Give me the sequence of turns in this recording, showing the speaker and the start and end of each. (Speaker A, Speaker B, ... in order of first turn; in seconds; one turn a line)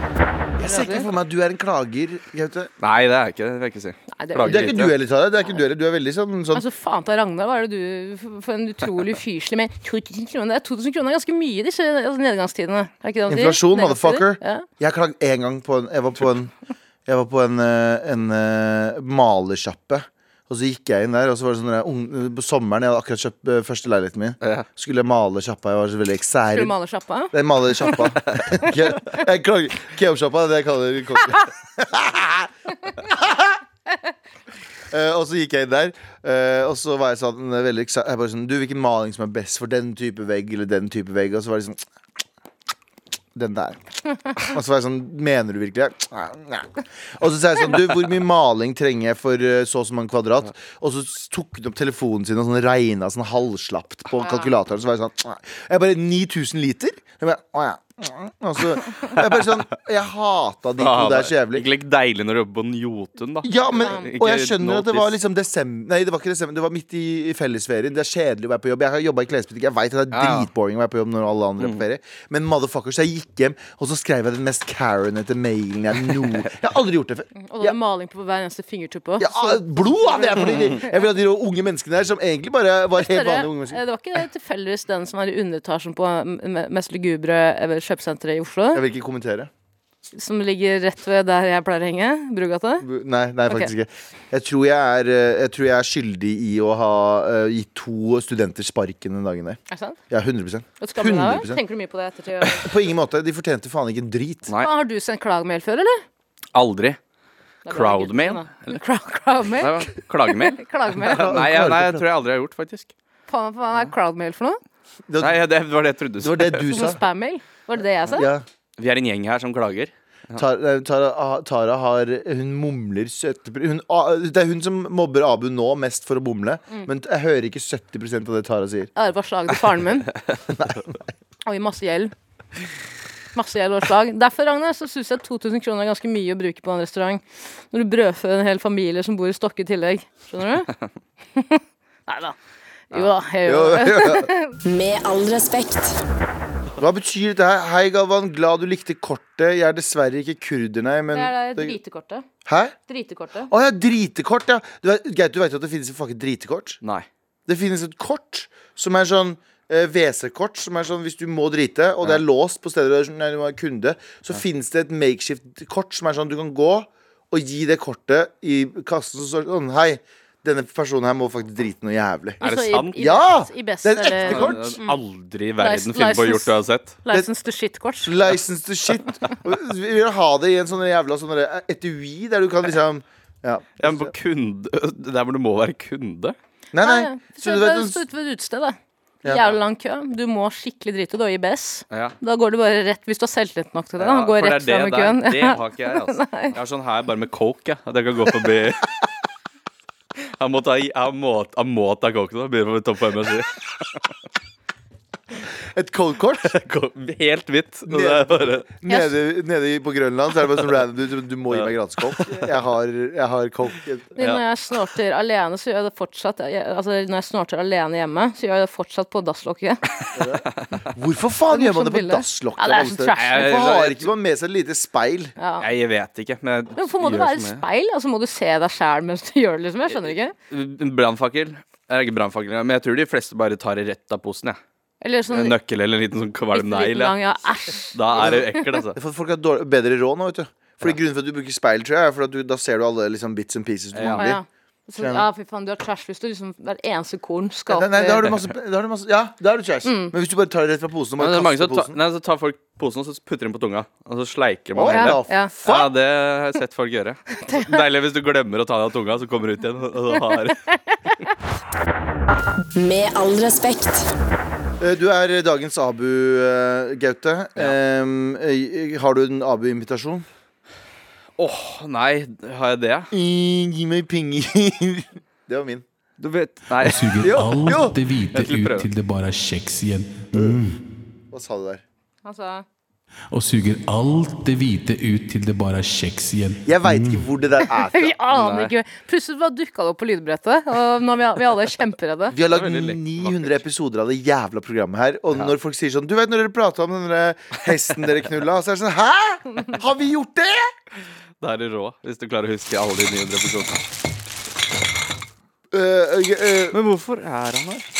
Speaker A: 0.6-2.7
Speaker B: 0.6-1.1
Speaker C: 2.8-4.9
Speaker B: 4.1-4.7
Speaker A: 4.4-6.6
Speaker B: 6.5-14.7
Speaker A: 13.3-16.5
Speaker A: 17.1-26.7
Speaker B: 26.5-28.0
Speaker A: 27.3-33.6
Speaker A: 34.9-41.8
Speaker A: 43.3-43.8
Speaker A: 44.3-61.6
Speaker B: 54.2-54.5
Speaker C: 60.8-65.1
Speaker A: 63.4-77.7
Speaker B: 63.8-64.1
Speaker C: 70.1-70.5
Speaker B: 77.4-81.0
Speaker A: 79.2-83.8
Speaker B: 83.0-88.8
Speaker A: 88.7-89.5
Speaker B: 90.1-92.8
Speaker A: 92.8-99.6
Speaker B: 99.7-100.0
Speaker A: 100.1-101.6
Speaker B: 100.8-102.7
Speaker A: 102.5-104.5
Speaker B: 104.6-106.0
Speaker C: 106.5-107.0
Speaker B: 107.7-111.3
Speaker C: 107.7-108.7
Speaker C: 109.6-112.9
Speaker A: 111.0-112.0
Speaker B: 113.3-114.6
Speaker A: 115.1-115.4
Speaker C: 115.2-116.9
Speaker A: 116.2-117.0
Speaker B: 116.7-118.3
Speaker A: 118.1-118.4
Speaker C: 118.8-120.4
Speaker A: 120.3-128.9
Speaker B: 128.9-130.1
Speaker A: 130.5-130.8
Speaker B: 131.4-132.1
Speaker B: 133.3-140.7
Speaker B: 141.3-142.3
Speaker B: 142.9-144.6
Speaker A: 143.4-144.3
Speaker D: 144.6-146.0
Speaker A: 146.8-151.8
Speaker B: 151.1-152.2
Speaker A: 152.4-152.8
Speaker B: 152.9-153.5
Speaker A: 153.5-156.8
Speaker C: 156.8-157.1
Speaker A: 157.5-174.8
Speaker B: 172.4-174.9
Speaker C: 172.4-172.9
Speaker C: 174.2-177.0
Speaker B: 175.6-178.2
Speaker A: 178.0-184.1
Speaker C: 183.8-186.3
Speaker A: 186.7-188.0
Speaker B: 186.8-196.5
Speaker A: 189.2-189.5
Speaker C: 191.9-192.2
Speaker C: 194.0-198.9
Speaker C: 200.4-203.9
Speaker A: 205.7-206.5
Speaker C: 206.4-208.6
Speaker A: 207.9-214.2
Speaker C: 211.5-212.5
Speaker B: 214.2-219.8
Speaker C: 220.0-220.8
Speaker A: 220.1-225.3
Speaker B: 221.5-223.5
Speaker C: 223.1-224.1
Speaker B: 225.4-225.7
Speaker C: 225.6-227.6
Speaker B: 226.8-230.3
Speaker C: 230.5-234.6
Speaker B: 235.0-235.5
Speaker C: 235.3-237.1
Speaker B: 236.5-238.6
Speaker C: 237.9-239.0
Speaker A: 238.2-244.4
Speaker C: 243.9-244.3
Speaker B: 244.1-248.2
Speaker A: 245.0-245.2
Speaker A: 247.7-251.9
Speaker B: 249.8-250.1
Speaker C: 251.2-260.6
Speaker A: 254.7-255.9
Speaker B: 254.9-255.5
Speaker B: 257.4-257.8
Speaker B: 260.5-261.1
Speaker D: 262.7-264.1
Speaker A: 264.8-270.2
Speaker C: 271.4-273.1
Speaker A: 273.1-275.8
Speaker C: 276.2-277.3
Speaker E: 276.8-280.8
Speaker A: 277.2-277.9
Speaker C: 278.3-278.9
Speaker A: 280.3-280.6
Speaker A: 281.3-281.8
Speaker B: 282.2-282.6
Speaker E: 283.3-287.2
Speaker A: 286.6-288.1
Speaker B: 287.6-292.4
Speaker C: 288.3-288.7
Speaker A: 292.3-300.7
Speaker C: 292.5-293.6
Speaker C: 301.4-303.8
Speaker A: 305.7-306.8
Speaker C: 306.7-307.9